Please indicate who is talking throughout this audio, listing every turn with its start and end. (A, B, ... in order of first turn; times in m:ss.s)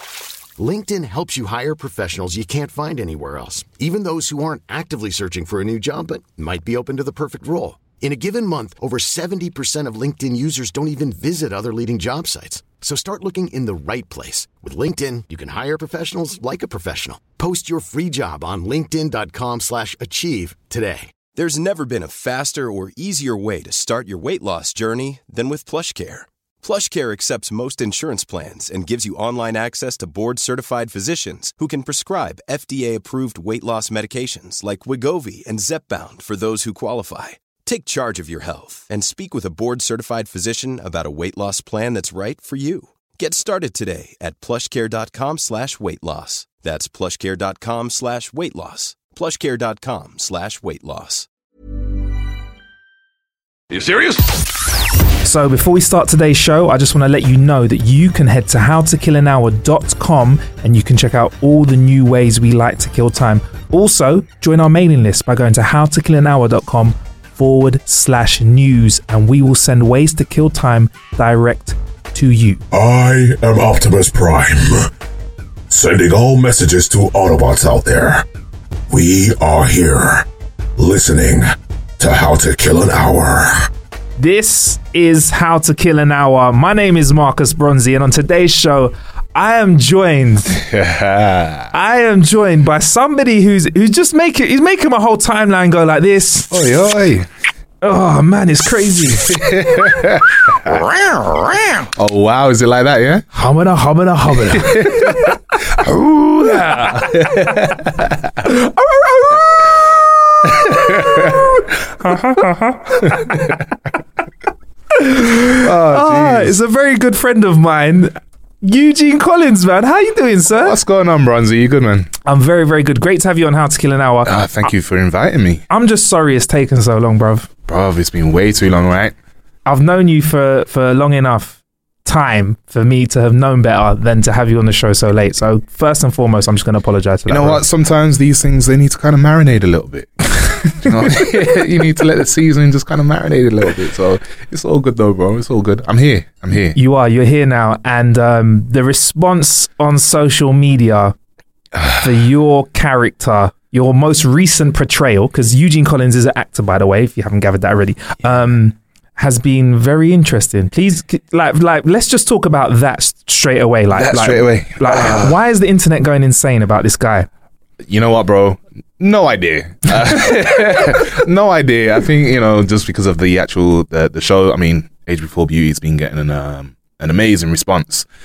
0:00.6-0:21.1 A
0:21.4-0:51.3 B
0:55.2-1:12.6 C
1:12.7-1:14.9 D
1:15.7-1:18.2 D
1:18.9-1:20.3 D
1:20.8-1:23.7 D
1:24.2-1:30.6 C
1:30.5-1:31.7 E
1:31.7-1:36.5 C
1:36.5-1:37.3 E
1:37.8-1:39.4 C
1:39.3-1:40.8 E
1:41.9-1:43.3 E
1:43.3-1:45.3 C
1:44.5-1:48.3 E
1:45.9-1:47.7 C
1:48.4-1:49.8 C
1:50.4-1:51.5 E
1:50.8-1:53.4 C
1:53.1-1:53.5 E
1:54.9-2:00.8 C
1:55.6-1:56.6 E
2:00.6-2:02.1 E
2:02.2-2:04.3 C
2:04.2-2:05.6 E
2:05.7-2:07.5 C
2:07.7-2:09.2 E
2:09.7-2:17.6 C
2:17.3-2:26.8 E
2:26.7-2:31.2 C
2:31.8-2:32.1 E
2:32.0-2:47.3 C
2:43.9-2:45.4 E
2:47.8-2:58.1 E